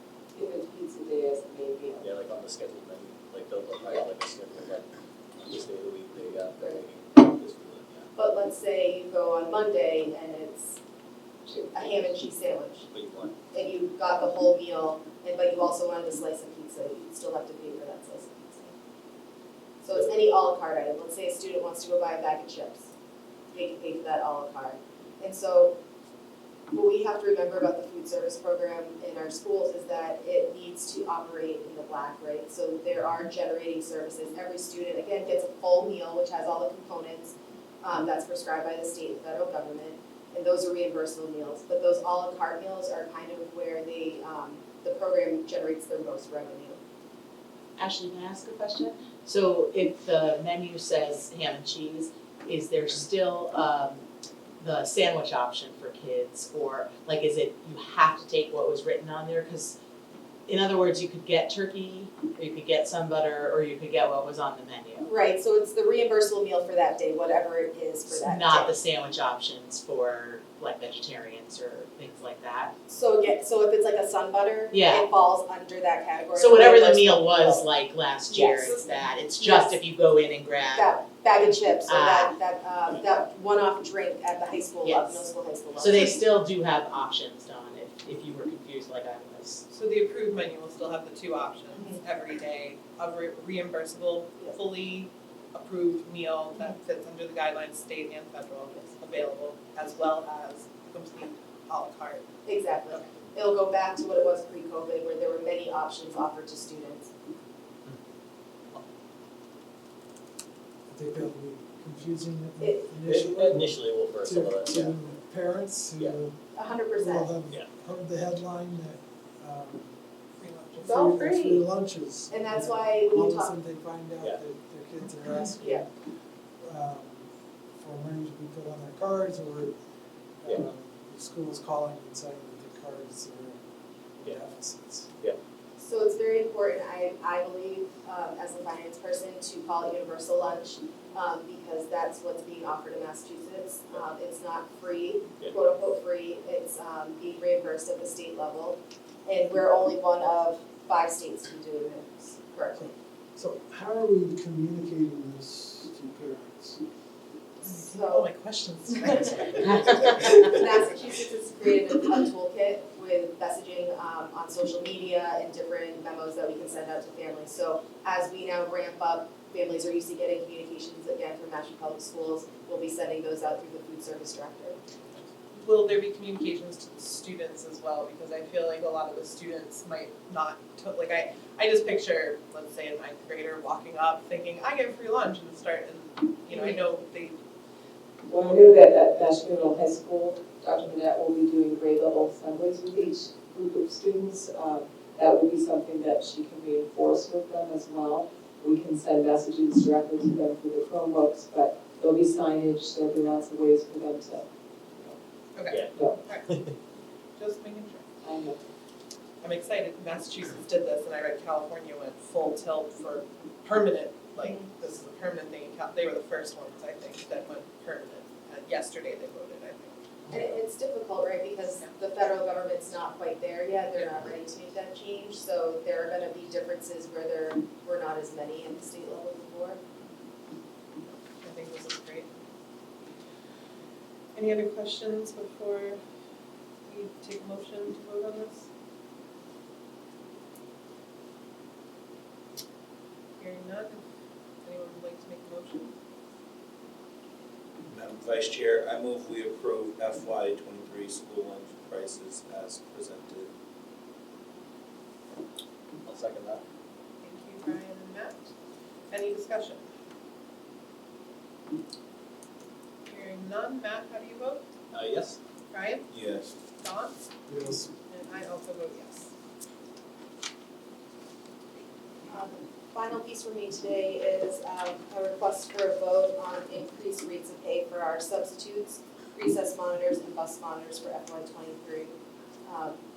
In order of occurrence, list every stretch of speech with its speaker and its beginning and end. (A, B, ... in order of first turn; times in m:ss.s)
0:00.3-0:02.1 A
0:02.0-0:08.1 B
0:08.1-0:10.8 C
0:11.4-0:12.0 A
0:11.7-0:12.9 C
0:12.9-0:13.4 B
0:13.5-0:18.7 C
0:19.8-0:22.9 C
0:23.5-0:25.8 C
0:26.7-0:46.8 C
0:47.8-0:54.0 D
0:54.6-0:59.8 D
1:00.5-1:05.1 D
1:05.0-1:08.8 C
1:08.1-1:12.7 D
1:12.9-1:17.7 C
1:14.7-1:15.1 D
1:16.3-1:22.3 D
1:18.3-1:19.8 C
1:20.7-1:26.3 C
1:24.8-1:29.6 D
1:29.7-1:42.2 E
1:42.4-1:47.1 C
1:50.9-1:56.4 F
1:52.6-1:52.9 C
1:53.0-1:55.0 B
1:56.5-1:57.4 C
1:57.0-1:59.9 F
2:00.4-2:01.0 E
2:00.8-2:05.9 F
2:00.8-2:01.6 C
2:02.3-2:03.5 C
2:05.6-2:05.8 C
2:06.6-2:09.8 F
2:10.4-2:13.6 F
2:14.2-2:15.2 F
2:15.8-2:32.8 C
2:32.7-2:36.8 F
2:37.6-2:38.3 C
2:37.7-2:40.5 E
2:38.9-2:54.8 C
2:55.5-3:07.3 E
3:08.2-3:24.5 A
3:25.6-3:26.6 E
3:25.6-3:26.8 B
3:27.4-3:28.1 E
3:28.2-3:28.6 A
3:29.4-3:40.0 E
3:40.3-3:49.8 C
3:43.9-3:44.2 E
3:51.4-3:52.4 E
3:54.3-3:56.0 E
3:56.9-3:58.7 E
4:03.4-4:04.0 E
4:04.6-4:05.9 E
4:07.9-4:13.5 G
4:16.0-4:16.6 B
4:17.2-4:18.5 E
4:19.1-4:19.8 E
4:23.0-4:24.7 E
4:24.9-4:25.4 B
4:25.7-4:26.0 E
4:26.1-4:26.5 G
4:26.8-4:27.2 E
4:27.5-4:27.9 F
4:28.1-4:29.3 E
4:32.3-4:43.0 C